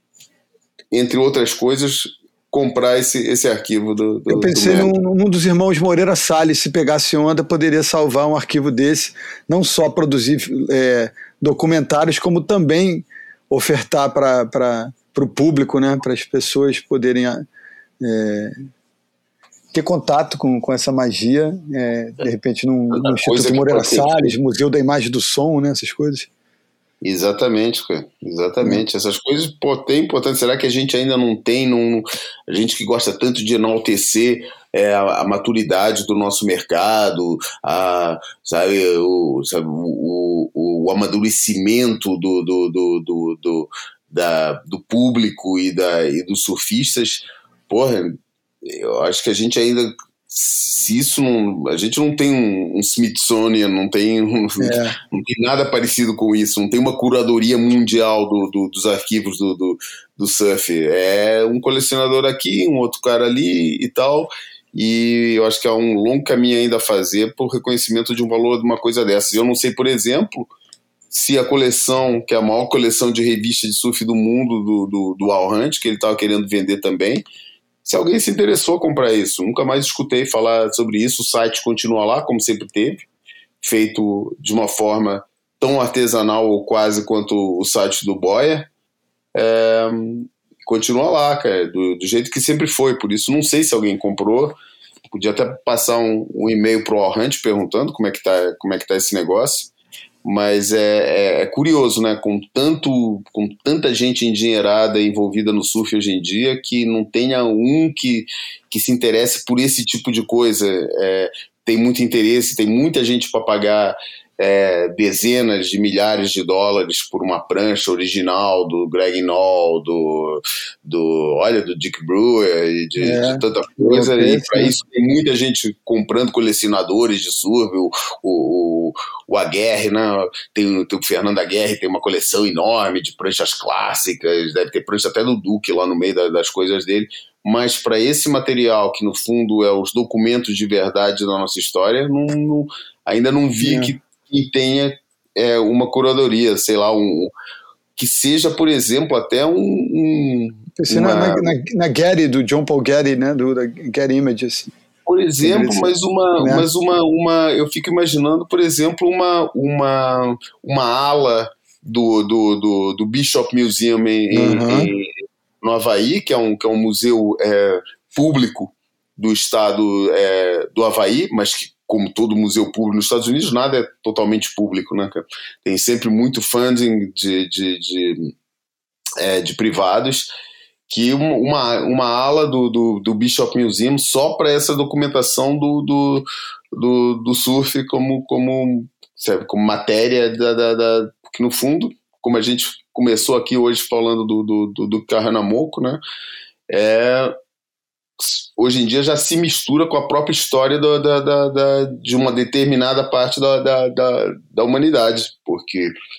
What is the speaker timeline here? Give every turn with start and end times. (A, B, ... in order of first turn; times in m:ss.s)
0:00.9-0:04.9 A
0:04.3-0:17.4 B
0:18.0-0:18.5 B
0:19.7-0:26.3 B
0:22.9-0:24.3 A
0:27.0-1:10.5 A
0:54.6-0:54.9 B
1:11.1-1:17.2 A
1:17.8-1:23.0 A
1:23.6-1:28.7 A
1:29.3-1:34.6 A
1:35.1-1:39.7 A
1:40.2-2:27.3 A
2:03.0-2:04.7 B
2:23.6-2:23.9 B
2:28.0-2:31.5 A
2:30.8-2:34.7 B
2:35.0-2:45.1 A
2:35.4-2:36.6 B
2:44.3-2:44.9 B
2:45.6-2:58.3 A
2:59.2-3:00.3 A
3:00.9-3:16.0 A
3:16.7-3:17.4 A
3:18.2-3:25.9 A